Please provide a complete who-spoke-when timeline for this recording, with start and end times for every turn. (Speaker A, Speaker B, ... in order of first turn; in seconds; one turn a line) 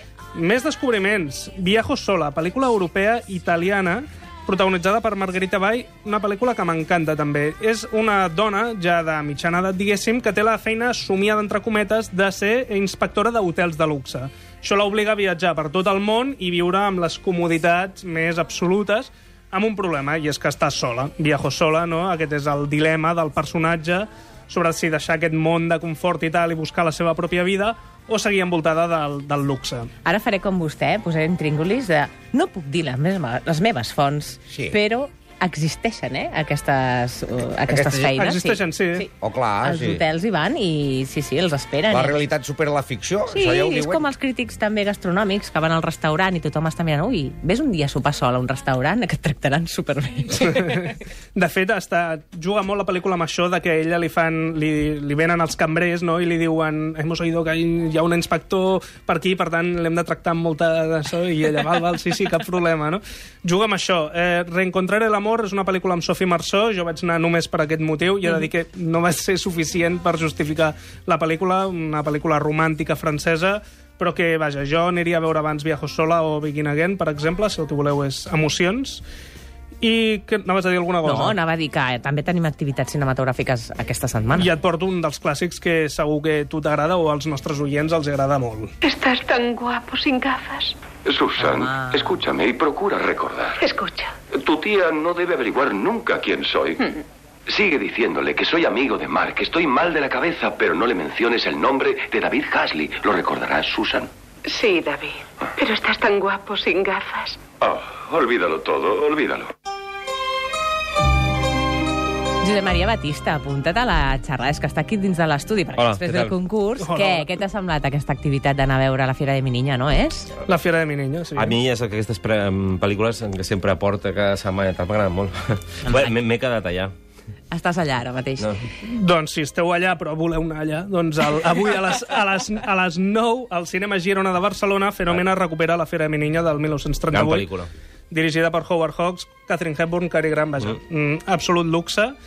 Speaker A: 0.3-29.9
Speaker B: 30.1-39.1
Speaker C: 34.5-34.8
Speaker A: 37.7-39.1
Speaker C: 39.2-40.0
Speaker B: 39.6-42.2
Speaker C: 41.9-44.1
Speaker B: 43.3-50.6
Speaker A: 50.4-79.0
Speaker A: 79.8-81.4
Speaker B: 81.0-84.5
Speaker A: 84.4-88.7
Speaker D: 88.9-90.7
Speaker E: 91.0-93.6
Speaker B: 91.4-92.2
Speaker D: 93.6-94.1
Speaker E: 94.3-96.8
Speaker E: 97.5-104.1
Speaker D: 104.5-107.4
Speaker E: 107.6-109.5
Speaker B: 112.4-120.3
Speaker F: 115.8-116.3
Speaker A: 116.8-117.3
Speaker A: 120.5-121.6
Speaker F: 121.3-126.9
Speaker B: 125.9-126.1
Speaker B: 127.5-128.5
Speaker A: 128.8-137.5
Speaker F: 137.1-137.7
Speaker A: 138.1-142.2